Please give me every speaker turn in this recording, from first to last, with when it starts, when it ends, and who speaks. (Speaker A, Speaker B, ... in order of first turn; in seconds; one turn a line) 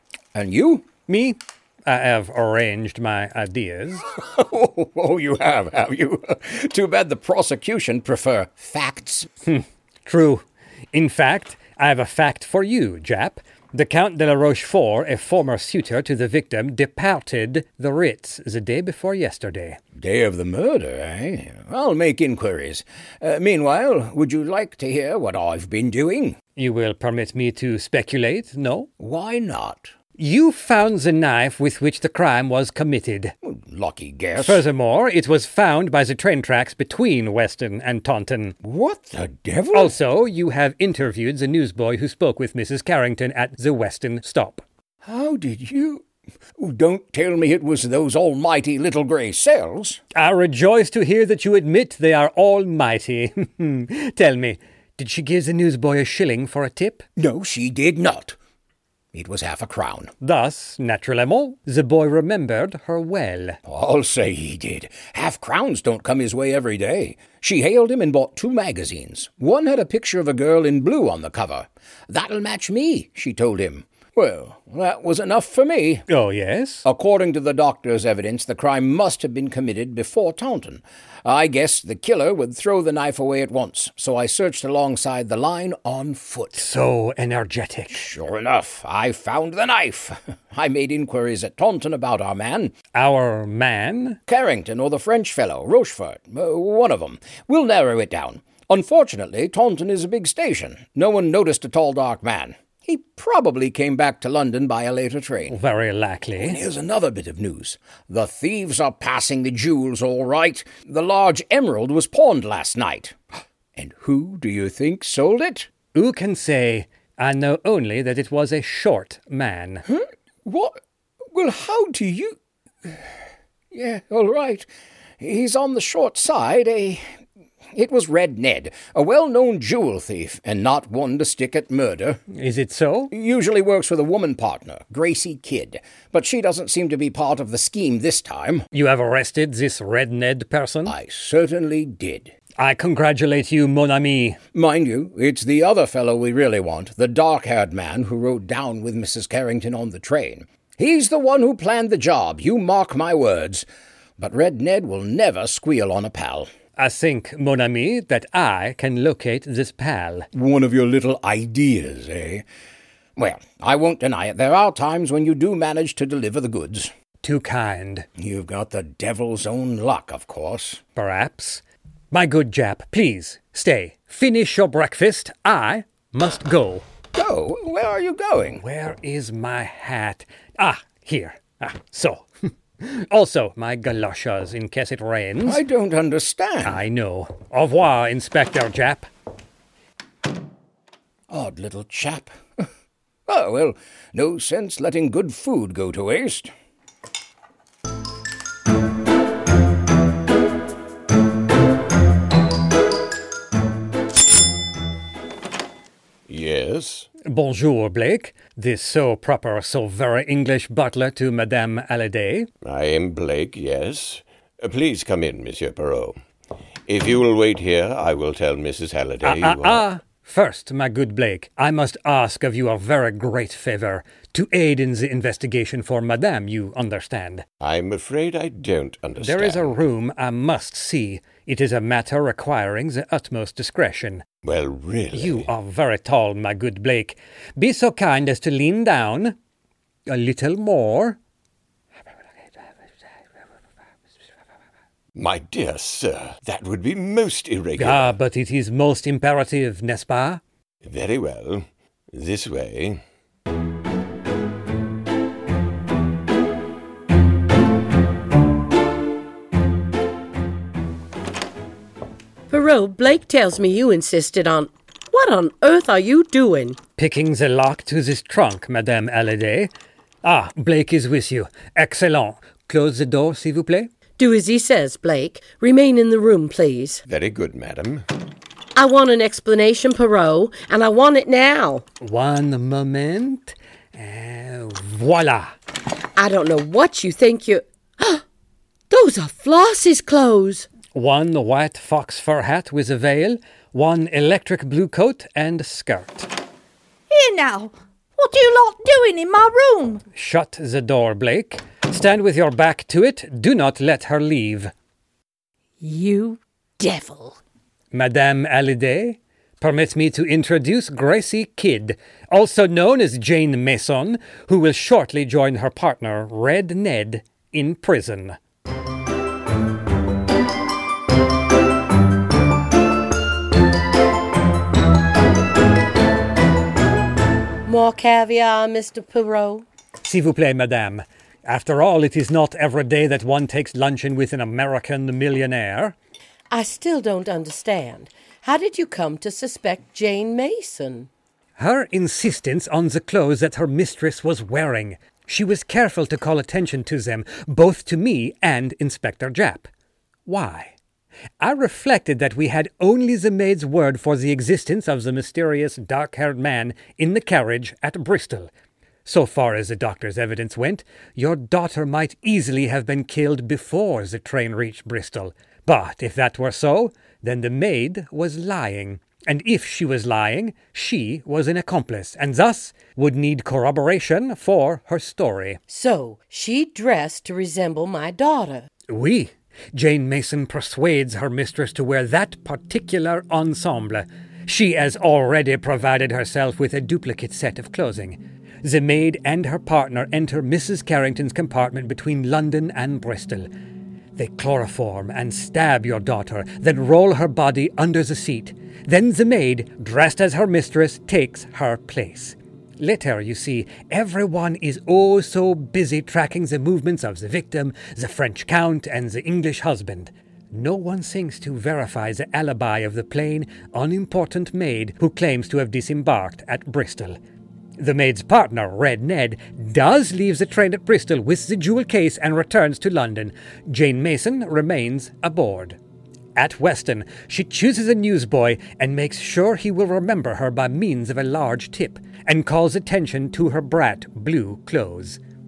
Speaker A: 0.3-0.9
Speaker B: 1.1-4.0
Speaker A: 4.1-9.3
Speaker B: 9.5-19.8
Speaker A: 19.9-26.4
Speaker B: 26.6-28.9
Speaker A: 29.0-29.9
Speaker B: 30.2-33.3
Speaker A: 33.4-34.6
Speaker B: 34.4-38.5
Speaker A: 38.6-39.9
Speaker B: 39.7-44.6
Speaker A: 45.0-46.0
Speaker A: 46.6-50.0
Speaker B: 50.1-57.0
Speaker A: 57.2-58.4
Speaker A: 59.1-60.1
Speaker B: 60.2-63.6
Speaker A: 63.6-76.0
Speaker B: 76.1-76.8
Speaker A: 76.8-86.6
Speaker B: 86.5-88.0
Speaker A: 87.9-92.7
Speaker B: 92.9-94.2
Speaker A: 94.3-105.6
Speaker B: 105.5-106.6
Speaker A: 106.4-113.2
Speaker A: 113.7-115.7
Speaker B: 115.9-119.8
Speaker A: 119.9-120.8
Speaker A: 121.3-123.1
Speaker A: 123.7-124.7
Speaker A: 125.2-127.0
Speaker A: 127.7-132.2
Speaker B: 132.3-133.1
Speaker A: 133.1-138.7
Speaker B: 138.7-140.9
Speaker A: 140.8-142.3
Speaker B: 142.6-144.4
Speaker A: 144.5-153.6
Speaker A: 154.2-156.5
Speaker B: 156.8-160.3
Speaker A: 160.3-162.4
Speaker A: 163.2-166.9
Speaker B: 167.2-168.1
Speaker A: 168.2-170.8
Speaker B: 170.9-176.8
Speaker A: 177.1-178.6
Speaker B: 178.6-182.3
Speaker B: 182.8-185.6
Speaker A: 185.4-186.8
Speaker B: 186.6-189.1
Speaker A: 191.3-192.7
Speaker A: 193.3-196.5
Speaker C: 206.3-207.1
Speaker B: 207.2-212.5
Speaker C: 212.6-216.2
Speaker C: 216.8-219.8
Speaker B: 219.2-227.4
Speaker C: 227.6-229.8
Speaker B: 229.2-234.2
Speaker C: 234.4-235.5
Speaker B: 235.1-239.3
Speaker B: 240.1-241.2
Speaker C: 245.1-248.2
Speaker B: 247.8-250.4
Speaker C: 250.8-253.0
Speaker D: 262.5-266.8
Speaker B: 267.0-269.7
Speaker B: 270.2-273.9
Speaker D: 274.2-277.0
Speaker C: 277.1-278.1
Speaker D: 278.8-281.8
Speaker B: 282.0-285.5
Speaker D: 286.2-288.2
Speaker D: 288.9-290.7
Speaker B: 290.9-296.3
Speaker E: 297.1-300.0
Speaker B: 300.1-304.7
Speaker E: 305.8-307.4
Speaker B: 307.9-318.4
Speaker D: 327.6-329.6
Speaker B: 330.0-335.9
Speaker D: 336.5-341.1
Speaker B: 341.6-349.7
Speaker B: 350.3-350.7
Speaker B: 351.4-358.5
Speaker B: 359.1-375.6
Speaker D: 375.7-378.7
Speaker B: 378.9-393.5
Speaker B: 394.1-417.2
Speaker B: 417.8-425.8
Speaker B: 426.4-435.2